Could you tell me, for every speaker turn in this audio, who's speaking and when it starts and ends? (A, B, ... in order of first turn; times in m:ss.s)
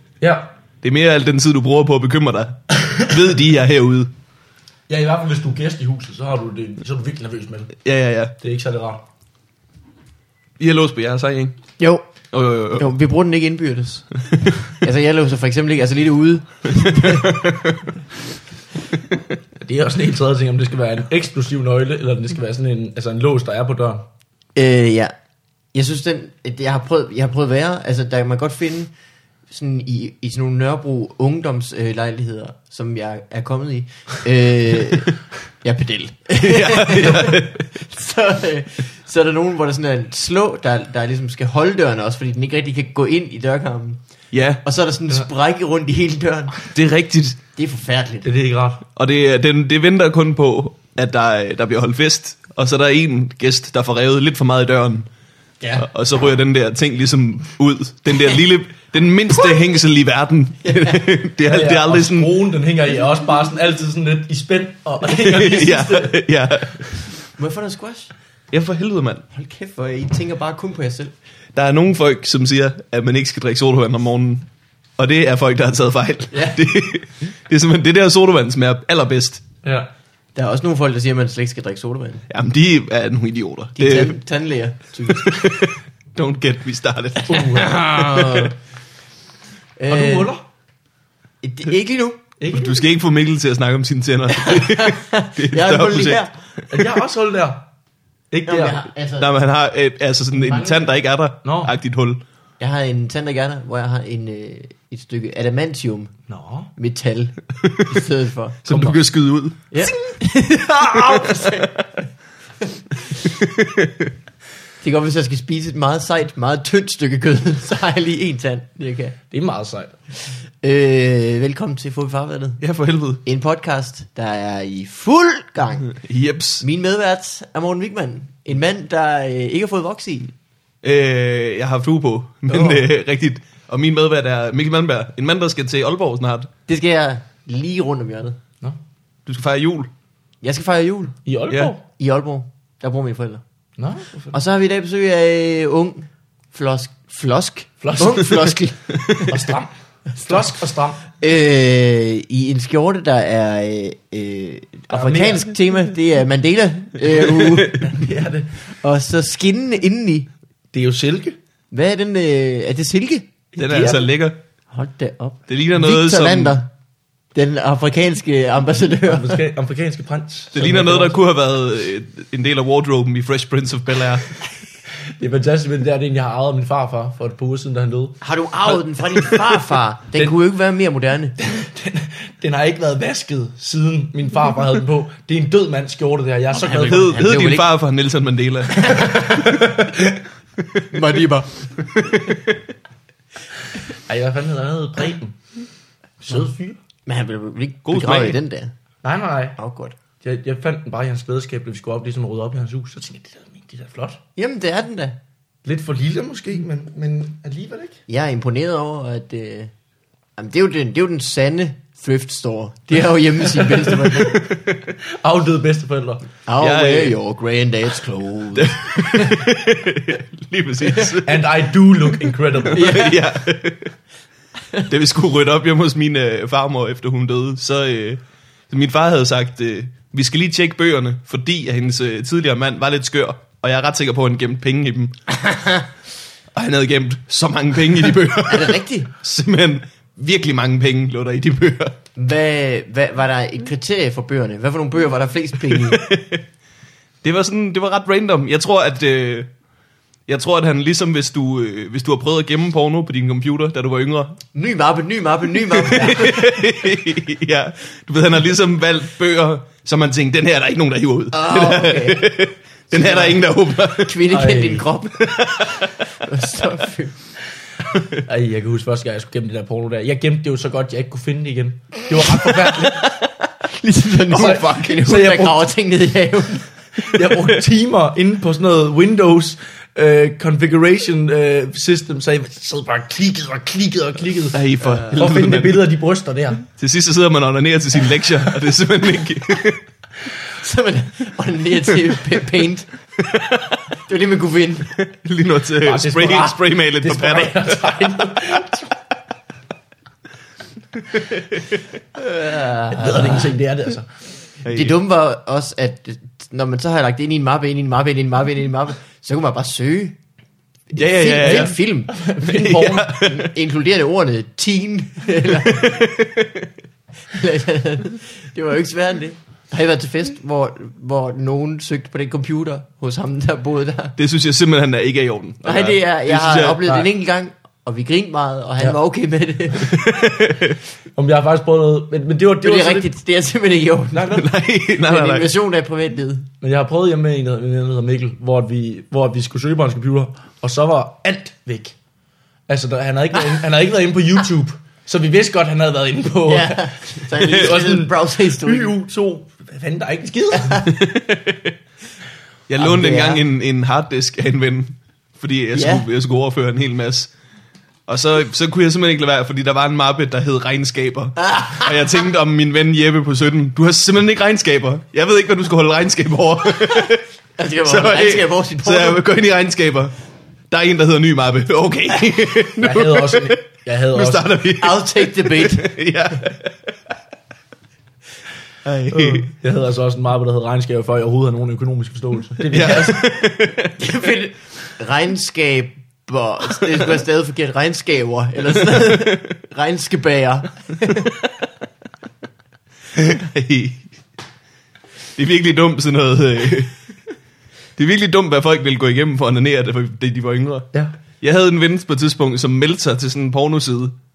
0:00.2-0:00.5 A
0:00.8-0:04.1 B
0:04.9-0:07.7 A
0:07.8-0:08.3 B
0:08.4-0:09.0 A
0:10.6-0:11.6 B
0:11.8-0:12.0 C
0:12.3-0:12.9 B
0:12.7-0:17.3 C
0:17.0-0:17.6 B
0:19.6-0:24.1 A
0:24.5-0:25.1 C
0:25.7-0:28.9 C
0:29.5-0:35.1 C
0:35.6-0:44.0 C
0:36.4-0:37.6 B
0:44.3-0:44.6 B
0:44.6-0:46.6 C
0:46.7-0:47.4 B
0:47.6-0:48.3 C
0:48.2-0:48.8 A
0:49.0-0:55.1 B
0:55.6-0:55.8 A
0:55.8-1:02.3 B
1:00.6-1:01.0 C
1:01.5-1:06.2 A
1:05.1-1:06.9 B
1:07.4-1:08.1 C
1:08.5-1:09.2 B
1:09.3-1:11.1 C
1:11.5-1:14.5 B
1:15.0-1:19.4 B
1:16.3-1:16.6 C
1:19.6-1:19.9 A
1:20.3-1:22.2 C
1:22.3-1:24.2 B
1:23.8-1:25.4 C
1:25.1-1:28.5 B
1:27.3-1:27.8 A
1:27.6-1:28.5 C
1:29.8-1:30.3 C
1:29.9-1:30.4 A
1:31.4-1:32.2 C
1:32.4-1:32.8 A
1:32.5-1:36.2 B
1:34.3-1:36.3 C
1:36.7-1:37.7 A
1:38.3-1:38.8 A
1:38.4-1:39.3 C
1:39.2-1:42.2 B
1:40.3-1:40.9 C
1:41.4-1:41.7 A
1:42.6-1:46.1 C
1:46.3-1:46.7 A
1:46.8-1:49.0 C
1:48.6-1:49.7 B
1:49.7-1:51.7 C
1:53.4-1:54.1 B
1:54.8-1:59.2 C
1:59.3-2:00.0 A
2:00.6-2:02.6 C
2:02.6-2:03.2 B
2:03.2-2:05.9 C
2:05.9-2:06.6 B
2:06.6-2:10.3 C
2:10.8-2:16.5 B
2:12.5-2:12.8 C
2:16.7-2:18.4 C
2:19.2-2:19.9 B
2:20.4-2:21.2 C
2:21.2-2:21.8 A
2:22.0-2:23.4 C
2:23.8-2:24.4 A
2:24.3-2:29.3 C
2:27.8-2:28.5 A
2:29.3-2:29.7 A
2:30.2-2:31.0 A
2:31.2-2:37.9 C
2:34.9-2:35.4 A
2:37.7-2:38.5 A
2:38.7-2:40.3 C
2:40.7-2:41.4 A
2:41.7-2:43.3 C
2:43.5-2:44.1 A
2:43.6-2:44.4 B
2:44.7-2:46.7 C
2:45.5-2:46.6 B
2:47.3-2:49.4 C
2:49.1-2:51.2 A
2:50.5-2:54.3 B
2:55.2-2:58.8 A
2:58.2-3:01.4 C
3:01.4-3:07.2 A
3:06.5-3:07.6 C
3:06.7-3:09.2 B
3:08.8-3:10.2 A
3:10.9-3:11.7 C
3:14.0-3:15.4 A
3:16.2-3:16.8 A
3:17.0-3:18.7 C
3:17.8-3:18.4 B
3:19.0-3:19.6 A
3:19.6-3:19.9 C
3:20.2-3:24.2 A
3:24.4-3:25.2 C
3:25.6-3:28.0 A
3:28.1-3:29.7 C
3:30.4-3:34.4 C
3:35.0-3:36.2 A
3:36.4-3:38.7 C
3:36.6-3:37.2 B
3:38.5-3:41.4 B
3:41.2-3:43.1 A
3:42.7-3:43.9 B
3:42.7-3:43.2 C
3:44.9-3:55.2 B
3:55.4-3:55.8 C
3:56.5-4:01.9 B
3:58.5-3:59.1 C
4:02.2-4:06.0 C
4:05.9-4:06.4 B
4:07.2-4:09.5 B
4:10.3-4:14.4 B
4:14.5-4:16.5 C
4:15.8-4:24.2 B
4:21.3-4:22.3 C
4:22.9-4:25.5 C
4:24.3-4:24.8 A
4:25.2-4:25.8 B
4:26.1-4:27.1 C
4:28.2-4:33.1 A
4:33.7-4:36.7 C
4:34.3-4:35.7 A
4:37.0-4:46.6 A
4:44.5-4:45.8 B
4:46.8-4:49.8 B
4:50.6-4:52.9 C
4:54.0-4:54.9 C
4:55.1-4:58.6 B
4:55.8-4:58.9 A
5:02.2-5:03.5 C
5:02.9-5:04.0 A
5:04.6-5:05.0 B
5:04.7-5:10.2 C
5:10.9-5:12.1 C
5:10.9-5:11.7 B
5:11.5-5:13.1 A
5:12.4-5:13.5 B
5:13.2-5:16.0 C
5:15.7-5:16.5 B
5:17.3-5:24.2 C
5:24.2-5:27.0 B
5:25.6-5:30.0 C
5:29.9-5:30.7 B
5:31.1-5:33.1 A
5:32.6-5:34.4 C
5:34.1-5:34.5 A
5:34.3-5:35.5 B
5:35.0-5:36.5 C
5:36.6-5:42.0 A
5:42.7-5:50.9 A
5:46.4-5:48.9 C
5:50.9-5:51.7 B
5:52.7-5:57.3 B
5:52.8-5:53.4 C
5:55.7-5:56.0 C
5:58.1-6:07.2 B
6:01.4-6:01.9 C
6:07.6-6:09.2 C
6:07.8-6:10.1 B
6:10.7-6:13.6 B
6:12.8-6:14.6 A
6:14.1-6:16.9 B
6:14.8-6:16.0 C
6:18.8-6:19.5 B
6:19.1-6:23.3 A
6:22.7-6:23.9 B
6:24.0-6:31.3 C
6:28.9-6:29.4 B
6:33.1-6:34.1 B
6:35.4-6:36.9 B
6:38.0-6:44.1 B